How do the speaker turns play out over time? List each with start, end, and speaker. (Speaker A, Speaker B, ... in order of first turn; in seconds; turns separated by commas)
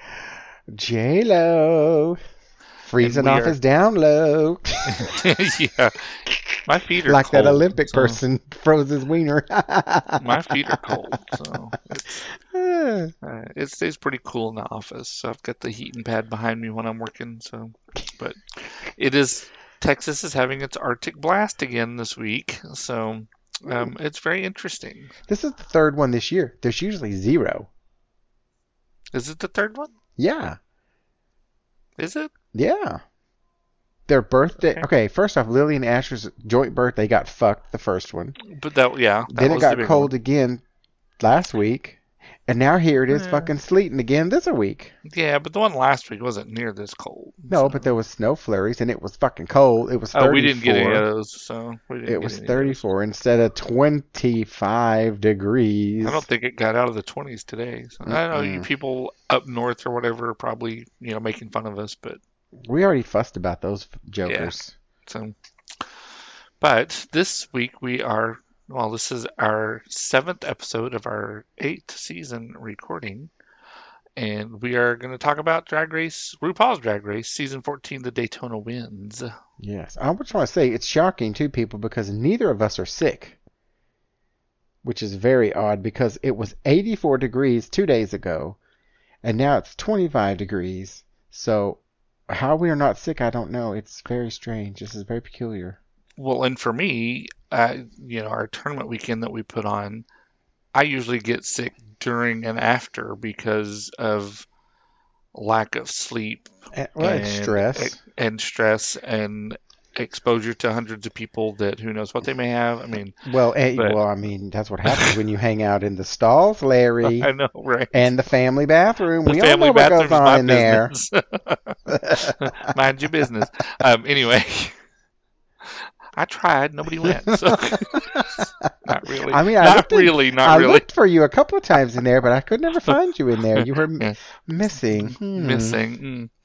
Speaker A: 0.7-2.2, Speaker A: 2.8-5.2, Speaker B: 3.0-3.6, Speaker B: 4.9-8.2, Speaker A: 6.3-11.0, Speaker B: 10.2-12.2, Speaker A: 12.1-13.1, Speaker B: 13.2-25.1, Speaker A: 25.3-27.7, Speaker B: 29.1-29.9, Speaker A: 30.2-30.6, Speaker B: 32.0-32.3, Speaker A: 32.5-33.0, Speaker A: 34.1-38.4, Speaker B: 34.6-34.9, Speaker B: 38.4-40.1, Speaker A: 39.3-40.6, Speaker A: 41.2-45.0, Speaker B: 43.1-43.5, Speaker B: 45.0-47.9, Speaker A: 47.5-51.1, Speaker B: 50.1-52.8, Speaker A: 52.1-56.3, Speaker B: 56.0-62.2, Speaker A: 58.1-58.7, Speaker A: 62.7-64.7, Speaker B: 64.2-64.5, Speaker B: 65.1-65.9, Speaker B: 66.6-73.3, Speaker B: 74.2-79.3, Speaker A: 79.6-83.4, Speaker A: 84.8-88.6, Speaker A: 89.2-95.8, Speaker B: 96.2-100.1, Speaker B: 100.7-104.5, Speaker B: 105.3-113.2, Speaker A: 106.7-108.0, Speaker A: 113.2-117.3, Speaker B: 113.8-114.0, Speaker B: 114.9-115.2, Speaker B: 117.0-118.1, Speaker A: 117.9-120.9, Speaker B: 119.2-124.8, Speaker A: 121.9-122.7, Speaker B: 125.7-130.8, Speaker A: 127.0-128.7, Speaker A: 129.3-135.8, Speaker B: 133.6-134.2, Speaker B: 134.9-136.3